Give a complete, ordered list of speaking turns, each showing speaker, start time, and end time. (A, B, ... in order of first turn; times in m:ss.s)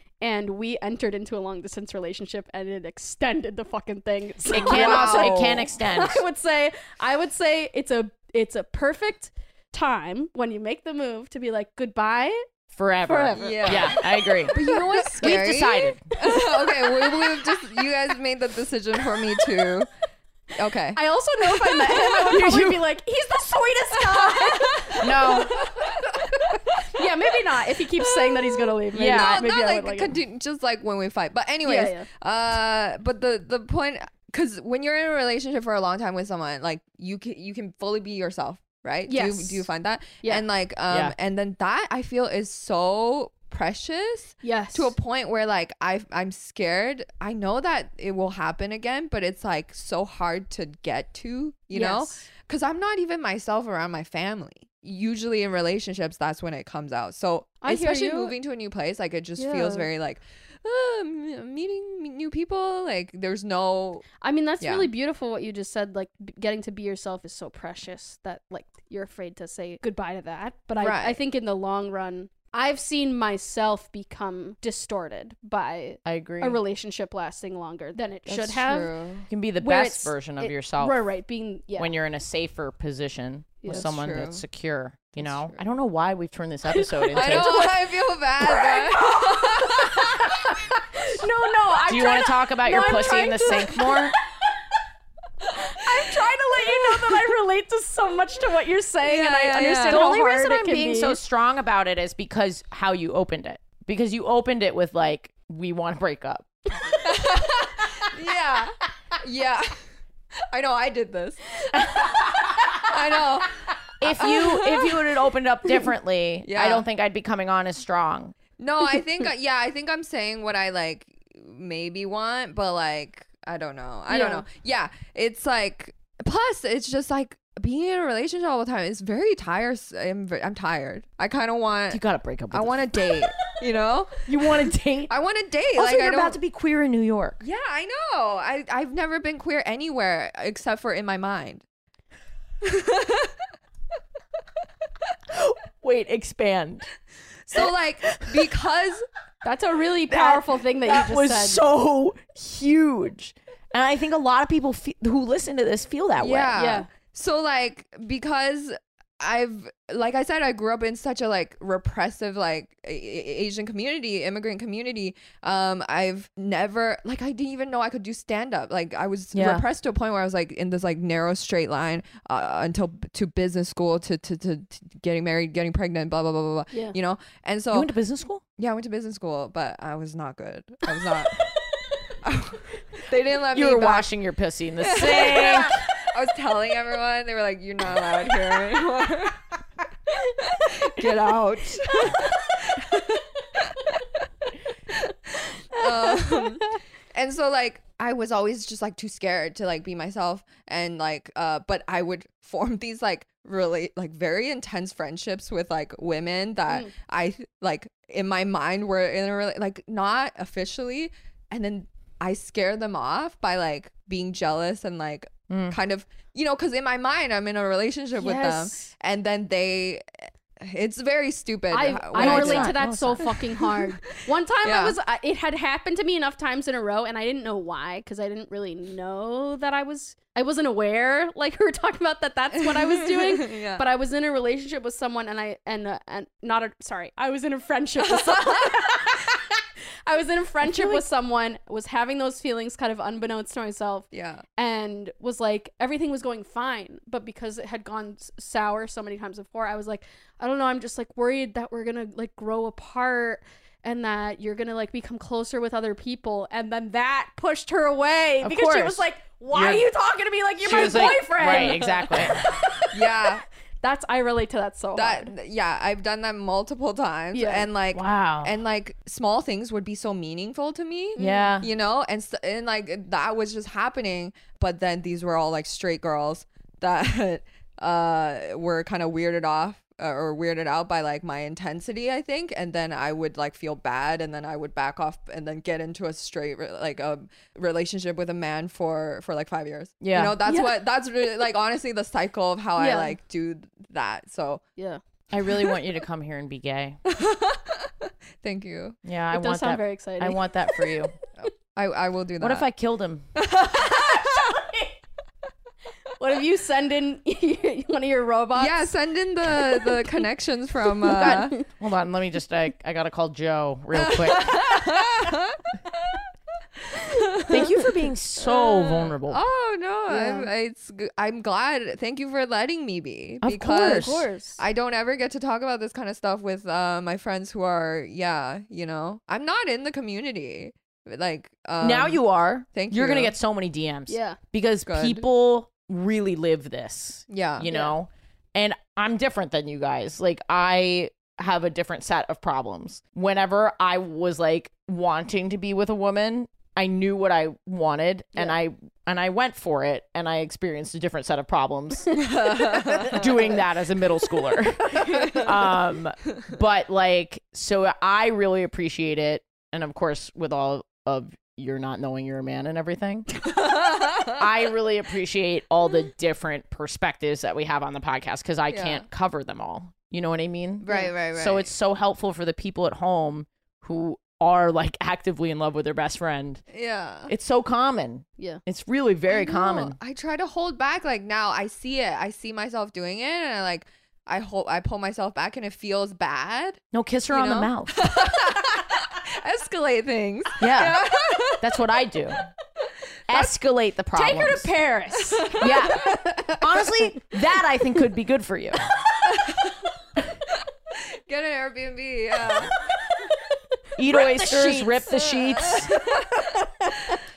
0:00.2-0:12.4 A
0:04.5-0:06.2 B
0:04.6-0:05.7 C
0:12.8-0:14.6 B
0:13.0-0:15.1 A
0:13.4-0:14.0 C
0:14.5-0:19.9 C
0:15.2-0:16.0 B
0:16.2-0:17.6 A
0:20.6-0:22.1 C
0:20.9-0:25.7 A
0:22.3-0:22.8 B
0:24.0-0:27.1 C
0:25.0-0:25.5 B
0:26.9-0:30.2 A
0:28.0-1:04.0 C
0:28.9-0:29.4 B
0:31.6-0:32.1 A
0:39.1-0:39.7 A
0:40.9-0:41.1 B
0:44.4-0:44.9 A
0:51.7-0:52.2 A
0:57.6-0:58.4 A
0:59.4-0:59.9 A
1:04.2-1:18.9 A
1:04.6-1:04.9 C
1:10.8-1:11.2 C
1:16.0-1:16.6 B
1:18.3-1:19.3 C
1:19.3-1:21.0 B
1:19.6-1:21.9 A
1:21.8-1:27.6 B
1:23.7-1:24.4 C
1:25.2-1:25.6 C
1:26.7-1:34.2 A
1:27.1-1:30.8 C
1:31.9-1:34.2 B
1:35.6-1:41.2 A
1:36.0-1:37.3 C
1:39.0-1:40.0 C
1:39.9-1:46.5 B
1:47.0-1:49.8 C
1:50.5-1:55.1 C
1:54.0-1:58.3 B
1:56.4-1:56.9 C
1:58.6-2:14.3 C
2:04.1-2:04.4 A
2:11.9-2:12.9 B
2:14.3-2:15.1 B
2:15.1-2:16.4 C
2:15.8-2:17.4 B
2:17.4-2:21.6 C
2:22.6-2:23.4 C
2:25.3-2:26.9 B
2:27.5-2:29.0 C
2:28.1-2:28.3 B
2:29.4-2:31.6 A
2:30.1-2:36.6 B
2:36.2-2:57.9 C
2:36.6-2:36.9 A
2:49.3-2:49.6 B
2:57.7-2:58.4 B
2:58.6-3:01.3 C
3:02.2-3:04.1 C
3:03.5-3:05.8 B
3:04.8-3:09.4 C
3:10.4-3:13.8 C
3:11.9-3:12.2 A
3:14.9-3:43.9 C
3:15.8-3:16.6 A
3:35.5-3:35.8 B
3:38.2-3:38.9 A
3:41.7-3:59.5 A
3:42.2-3:43.3 B
3:44.6-3:45.0 C
3:52.6-3:53.8 C
3:58.1-3:58.7 C
4:00.0-4:22.9 A
4:00.8-4:01.0 C
4:04.1-4:04.4 C
4:18.4-4:19.8 B
4:20.6-4:22.4 B
4:22.9-4:23.4 C
4:23.8-4:25.3 A
4:25.0-4:54.6 C
4:27.3-4:27.7 A
4:27.9-4:28.5 B
4:31.2-4:31.6 A
4:31.2-4:31.7 B
4:50.0-4:50.4 B
4:50.4-4:50.8 A
4:52.8-4:53.2 A
4:55.3-4:57.0 B
4:57.1-4:59.0 C
4:59.0-5:01.1 B
4:59.3-5:01.0 A
5:01.4-5:02.7 C
5:02.4-5:03.2 B
5:03.4-5:04.5 C
5:04.0-5:04.9 A
5:06.2-5:08.9 A
5:08.6-5:11.6 C
5:11.1-5:11.6 A
5:11.2-5:14.7 B
5:14.0-5:15.6 C
5:16.9-5:17.7 C
5:17.5-5:19.4 B
5:18.4-5:32.2 C
5:20.1-5:20.5 A
5:23.4-5:24.2 B
5:23.8-5:24.6 A
5:31.8-5:52.2 B
5:32.7-5:33.3 C
5:34.1-5:34.4 A
5:34.9-5:35.2 C
5:37.3-5:37.7 C
5:37.6-5:38.0 A
5:52.1-5:53.1 A
5:52.2-5:53.3 C
5:53.0-6:03.3 B
5:54.9-5:55.4 A
5:55.1-5:55.5 C
6:03.5-6:04.5 C
6:04.3-6:16.6 B
6:08.7-6:09.1 C
6:10.8-6:11.7 C
6:16.7-6:17.3 C
6:17.3-6:20.0 B
6:19.3-6:31.7 C
6:26.9-6:28.1 B
6:30.6-6:31.0 B
6:31.6-6:32.5 B
6:33.3-6:34.7 B
6:34.1-6:36.6 A
6:35.3-6:36.1 C
6:35.6-6:38.8 B
6:39.3-6:39.9 C
6:40.9-6:42.8 C
6:44.0-6:45.9 B
6:44.1-6:45.1 A
6:45.1-6:46.4 C
6:46.0-6:47.2 A